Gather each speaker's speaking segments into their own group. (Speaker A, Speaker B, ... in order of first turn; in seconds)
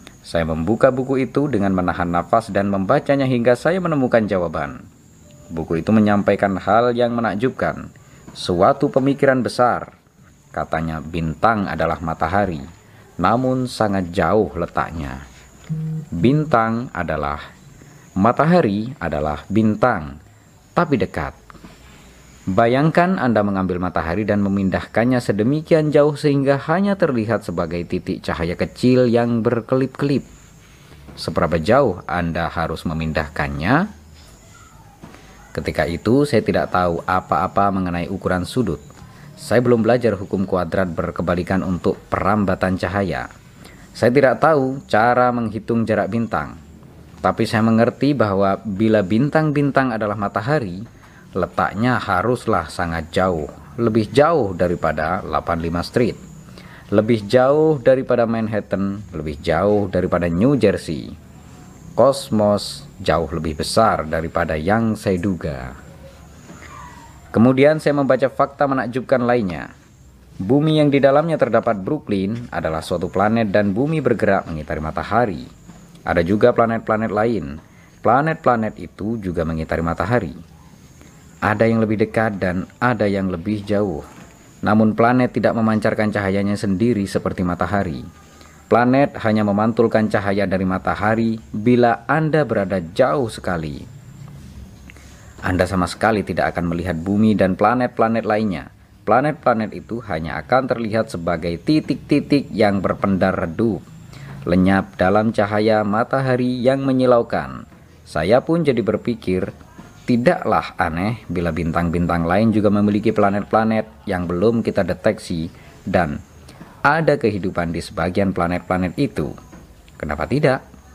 Speaker A: 0.2-4.8, 5.5-7.8, 8.4-9.9, 10.5-12.7, 13.2-15.2, 16.1-17.4, 18.2-20.2, 20.8-21.4, 22.5-30.3, 31.2-33.9, 35.5-38.8, 39.4-43.3, 44.0-46.6, 47.2-50.8, 51.4-56.2, 56.9-61.1, 62.0-65.7, 67.3-69.7, 70.4-75.5, 76.1-80.4, 81.4-84.0, 84.6-88.0, 88.7-93.8, 95.5-103.8, 104.5-109.5, 110.1-116.2, 116.9-119.3, 120.0-120.6